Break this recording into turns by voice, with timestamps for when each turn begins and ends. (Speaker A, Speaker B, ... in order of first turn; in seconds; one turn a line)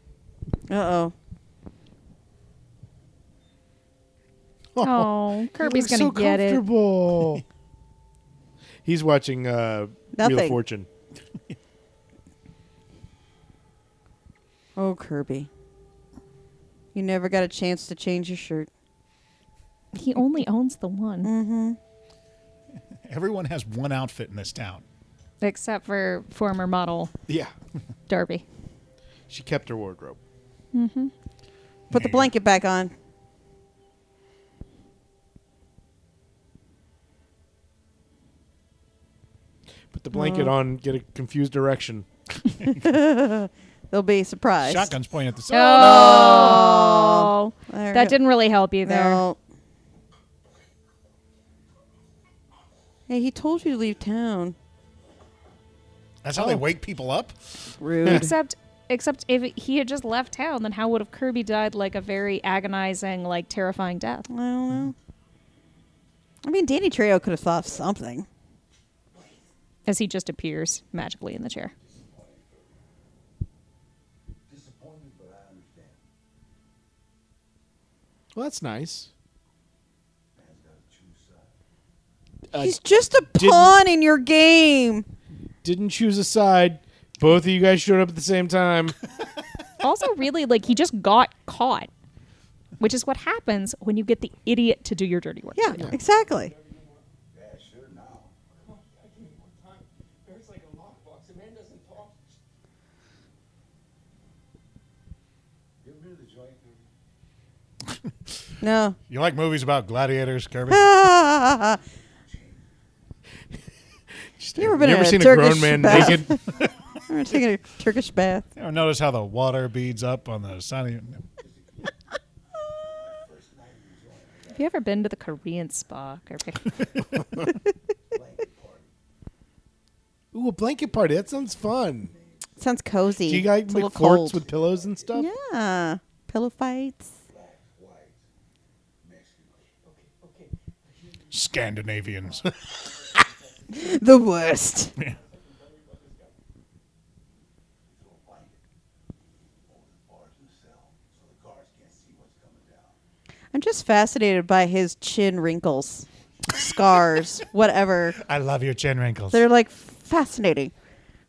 Speaker A: 0.7-1.1
Speaker B: 4.7-7.4
Speaker C: 4.8-6.6
Speaker B: 8.8-10.9
Speaker A: 10.1-10.6
Speaker A: 14.8-15.5
Speaker A: 16.9-18.7
Speaker C: 19.9-21.3
Speaker A: 21.2-21.8
Speaker D: 23.1-24.8
Speaker C: 25.4-27.1
Speaker B: 27.3-27.5
Speaker C: 28.1-28.4
Speaker B: 29.3-30.2
Speaker C: 30.7-31.1
Speaker A: 31.9-32.9
Speaker D: 31.9-32.3
Speaker B: 39.9-42.0
Speaker A: 40.1-40.5
Speaker A: 42.7-45.0
Speaker D: 44.6-46.6
Speaker C: 45.5-49.2
Speaker A: 45.8-48.2
Speaker A: 48.9-49.4
Speaker A: 53.1-54.5
Speaker D: 56.2-57.4
Speaker B: 56.3-56.7
Speaker A: 57.8-58.3
Speaker C: 58.0-64.3
Speaker A: 64.3-65.0
Speaker A: 66.4-68.3
Speaker C: 69.9-71.7
Speaker E: 71.8-72.8
Speaker E: 74.5-76.0
Speaker B: 78.3-79.1
Speaker E: 80.4-81.5
Speaker B: 82.5-82.8
Speaker A: 82.5-85.1
Speaker B: 83.3-83.8
Speaker B: 85.6-89.0
Speaker C: 89.8-91.9
Speaker C: 92.8-95.9
Speaker A: 95.5-96.5
Speaker F: 95.9-97.1
Speaker E: 97.3-98.3
Speaker F: 98.6-102.2
Speaker E: 105.8-106.9
Speaker A: 108.6-109.0
Speaker D: 109.1-110.9
Speaker A: 110.7-111.8
Speaker E: 112.2-112.7
Speaker B: 114.4-116.4
Speaker A: 114.6-116.5
Speaker A: 117.1-118.5
Speaker D: 118.5-121.2
Speaker E: 121.4-121.9
Speaker E: 122.9-124.8
Speaker C: 124.5-126.8
Speaker E: 128.1-128.9
Speaker B: 130.3-132.1
Speaker E: 131.1-132.6
Speaker A: 132.6-134.4
Speaker B: 133.3-135.3
Speaker E: 134.3-135.2
Speaker A: 135.1-137.1
Speaker E: 137.3-138.3
Speaker E: 139.0-139.8
Speaker F: 139.8-144.0
Speaker D: 141.3-142.7
Speaker A: 143.7-144.9
Speaker F: 145.0-146.3
Speaker E: 147.8-148.6
Speaker E: 149.7-153.0
Speaker A: 153.5-158.2
Speaker D: 158.2-159.4
Speaker A: 159.3-160.7